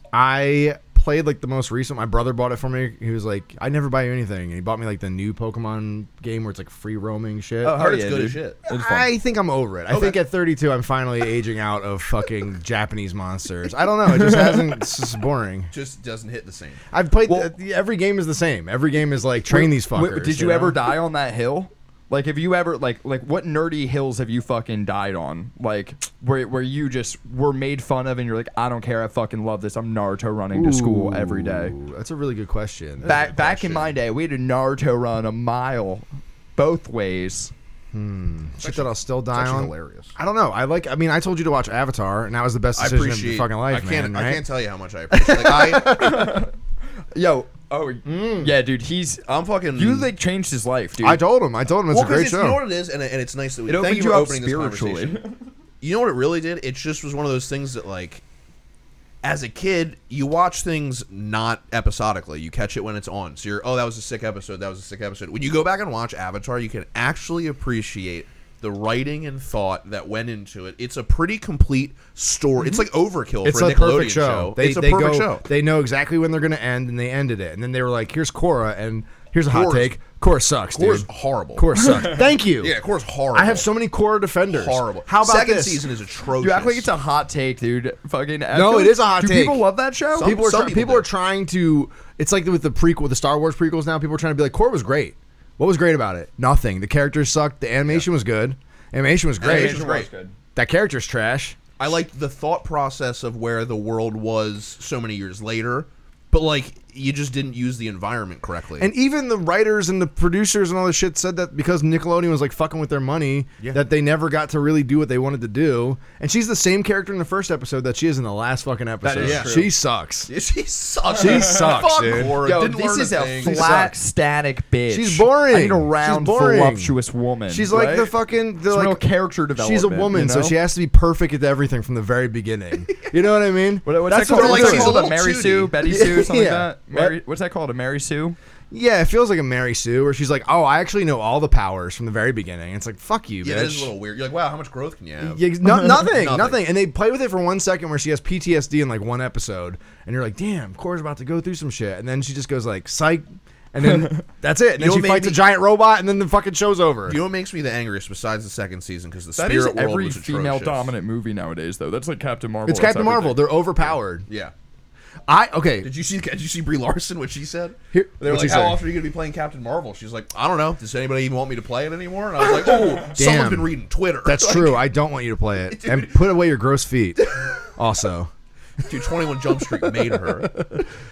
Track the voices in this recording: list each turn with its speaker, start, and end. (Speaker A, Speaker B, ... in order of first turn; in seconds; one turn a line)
Speaker A: 0.1-7.8
Speaker B: 7.6-9.1
Speaker C: 7.7-8.6
Speaker A: 8.7-15.7
Speaker C: 9.9-10.2
Speaker B: 14.1-14.7
Speaker C: 15.7-16.8
Speaker A: 16.9-20.8
Speaker B: 19.5-31.8
Speaker A: 30.5-33.1
Speaker C: 33.0-33.9
Speaker B: 33.1-37.5
Speaker A: 37.9-44.4
Speaker C: 38.6-40.1
Speaker C: 42.8-46.3
Speaker A: 45.1-46.3
Speaker B: 45.8-46.5
Speaker B: 47.1-51.2
Speaker A: 48.0-48.5
Speaker C: 49.3-50.1
Speaker A: 51.0-52.6
Speaker C: 51.9-55.2
Speaker B: 53.7-55.4
Speaker C: 55.8-58.2
Speaker C: 59.2-75.5
Speaker A: 73.4-82.8
Speaker C: 79.5-79.9
Speaker C: 80.7-82.0
Speaker C: 82.6-83.7
Speaker A: 83.3-85.8
Speaker C: 84.5-86.9
Speaker B: 86.4-90.3
Speaker A: 88.5-89.6
Speaker C: 90.1-91.1
Speaker A: 90.2-99.8
Speaker C: 99.4-100.1
Speaker B: 99.4-100.3
Speaker A: 100.6-101.6
Speaker C: 101.8-108.9
Speaker A: 108.8-120.3
Speaker B: 119.0-119.7
Speaker C: 119.2-119.6
Speaker C: 120.3-123.8
Speaker A: 121.1-122.4
Speaker B: 122.3-128.1
Speaker A: 123.4-123.9
Speaker A: 124.9-126.9
Speaker A: 127.5-129.0
Speaker B: 128.7-130.6
Speaker A: 129.6-135.0
Speaker B: 133.8-138.4
Speaker C: 134.3-136.0
Speaker A: 135.8-137.1
Speaker A: 138.7-143.9
Speaker C: 143.4-146.6
Speaker A: 145.2-157.2
Speaker C: 154.8-155.4
Speaker C: 157.1-160.9
Speaker B: 159.4-163.4
Speaker A: 162.7-164.2
Speaker C: 164.3-164.5
Speaker A: 165.3-165.9
Speaker C: 165.8-174.8
Speaker A: 167.9-168.8
Speaker A: 173.1-173.7
Speaker A: 174.2-177.2
Speaker C: 175.7-176.2
Speaker C: 177.3-177.6
Speaker A: 177.8-178.3
Speaker C: 178.8-180.7
Speaker A: 179.8-180.8